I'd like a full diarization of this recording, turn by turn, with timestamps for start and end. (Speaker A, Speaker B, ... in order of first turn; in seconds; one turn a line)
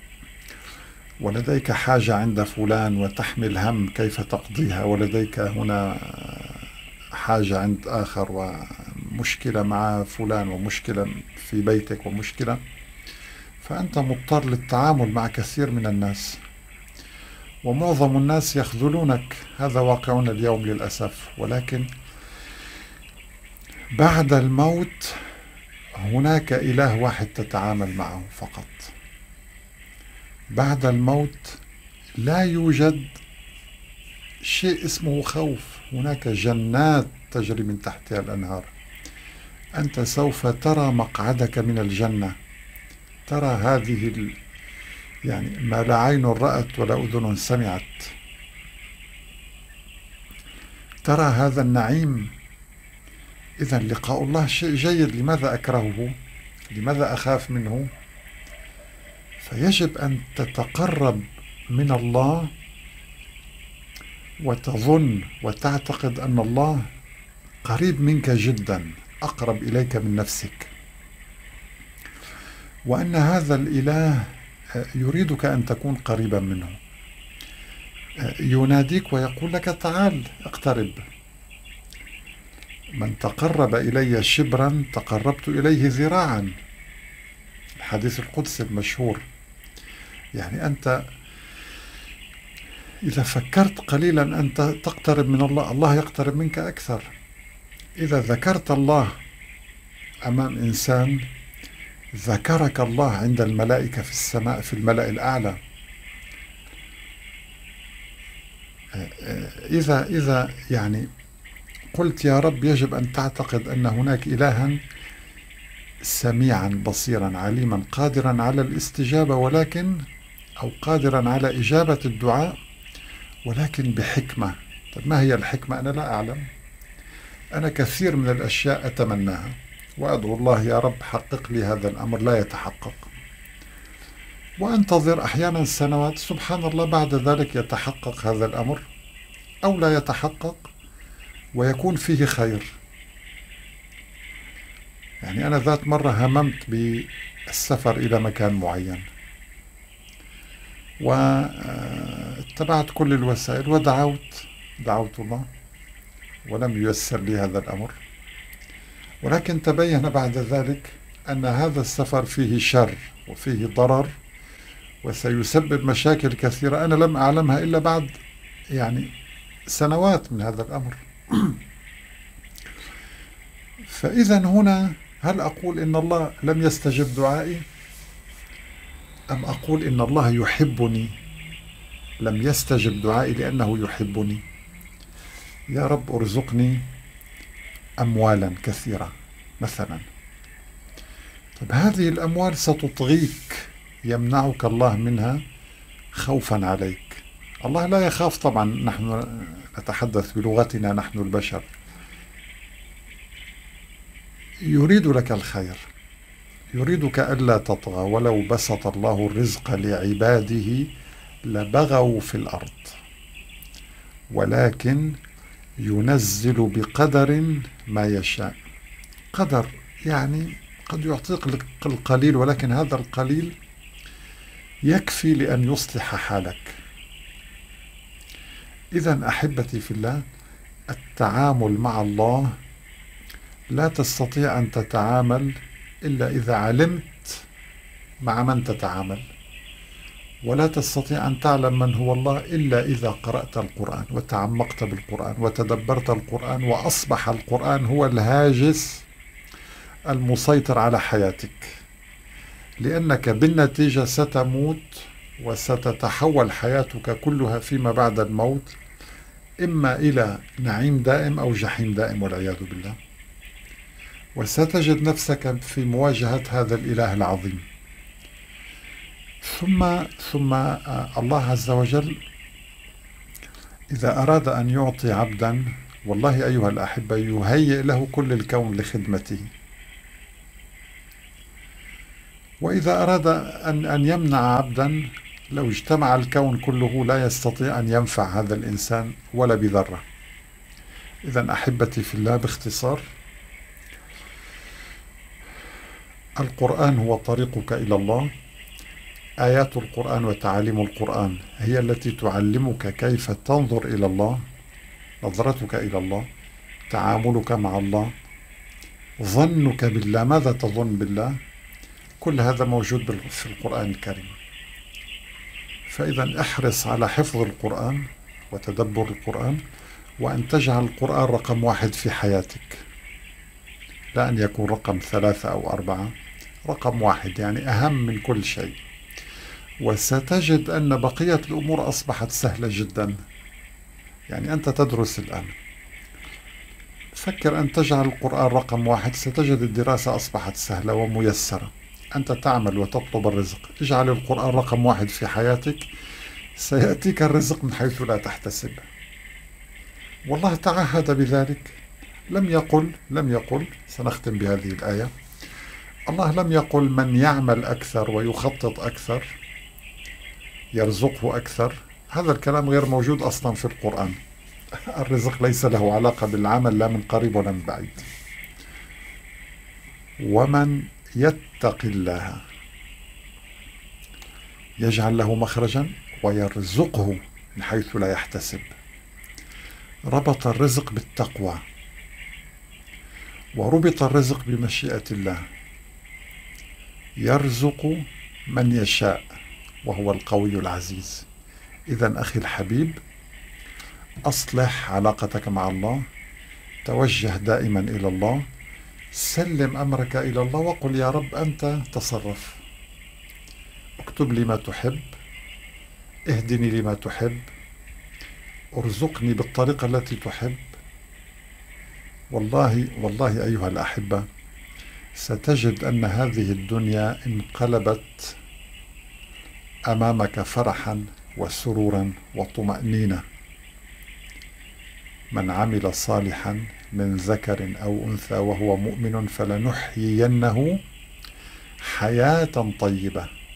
Speaker A: 1.2-12.6
Speaker A: 13.6-16.4
Speaker A: 17.6-21.9
Speaker A: 23.9-25.2
Speaker A: 26.0-28.9
Speaker A: 30.5-31.6
Speaker A: 32.2-33.1
Speaker A: 34.4-38.7
Speaker A: 39.8-42.3
Speaker A: 43.3-44.4
Speaker A: 45.3-48.1
Speaker A: 51.0-52.3
Speaker A: 53.6-56.1
Speaker A: 56.7-57.9
Speaker A: 59.4-62.5
Speaker A: 64.4-66.8
Speaker A: 67.6-70.7
Speaker A: 72.9-76.8
Speaker A: 78.2-81.0
Speaker A: 83.0-86.5
Speaker A: 87.8-89.2
Speaker A: 90.3-91.0
Speaker A: 93.0-97.1
Speaker A: 98.0-99.1
Speaker A: 100.3-101.2
Speaker A: 102.1-105.6
Speaker A: 108.9-111.1
Speaker A: 111.9-114.8
Speaker A: 116.0-120.0
Speaker A: 120.6-122.5
Speaker A: 123.5-126.4
Speaker A: 127.5-133.1
Speaker A: 134.6-138.8
Speaker A: 139.6-140.7
Speaker A: 141.5-142.7
Speaker A: 145.2-149.1
Speaker A: 151.0-155.5
Speaker A: 156.4-157.9
Speaker A: 159.2-164.1
Speaker A: 165.0-168.1
Speaker A: 168.7-169.1
Speaker A: 169.7-171.6
Speaker A: 173.9-177.6
Speaker A: 179.3-181.1
Speaker A: 182.2-184.4
Speaker A: 185.7-186.8
Speaker A: 188.0-190.0
Speaker A: 191.6-195.4
Speaker A: 196.1-201.7
Speaker A: 204.7-205.8
Speaker A: 206.7-210.9
Speaker A: 211.5-212.9
Speaker A: 214.3-215.2
Speaker A: 215.8-218.5
Speaker A: 219.3-223.5
Speaker A: 224.9-226.7
Speaker A: 228.9-230.2
Speaker A: 230.9-232.5
Speaker A: 233.7-237.4
Speaker A: 238.2-239.2
Speaker A: 240.4-249.0
Speaker A: 250.1-251.7
Speaker A: 252.8-258.8
Speaker A: 259.6-262.9
Speaker A: 264.4-267.6
Speaker A: 269.4-272.2
Speaker A: 273.9-279.5
Speaker A: 282.6-290.0
Speaker A: 291.3-293.0
Speaker A: 296.4-298.3
Speaker A: 299.4-304.4
Speaker A: 305.2-306.2
Speaker A: 306.9-308.1
Speaker A: 309.2-311.4
Speaker A: 312.2-314.4
Speaker A: 315.9-319.6
Speaker A: 320.2-322.8
Speaker A: 324.1-326.1
Speaker A: 326.6-328.8
Speaker A: 329.8-333.2
Speaker A: 334.3-335.6
Speaker A: 337.1-345.9
Speaker A: 346.6-348.9
Speaker A: 350.3-351.8
Speaker A: 352.3-355.1
Speaker A: 356.1-359.3
Speaker A: 360.7-364.2
Speaker A: 364.9-368.1
Speaker A: 370.2-372.4
Speaker A: 374.8-378.7
Speaker A: 380.1-381.6
Speaker A: 383.6-385.4
Speaker A: 387.2-389.2
Speaker A: 389.8-391.3
Speaker A: 391.9-393.0
Speaker A: 394.3-396.0
Speaker A: 396.8-398.4
Speaker A: 399.1-402.6
Speaker A: 404.0-405.1
Speaker A: 406.3-407.4
Speaker A: 408.7-410.6
Speaker A: 412.3-414.2
Speaker A: 415.1-418.4
Speaker A: 419.9-423.2
Speaker A: 425.3-430.8
Speaker A: 431.8-433.3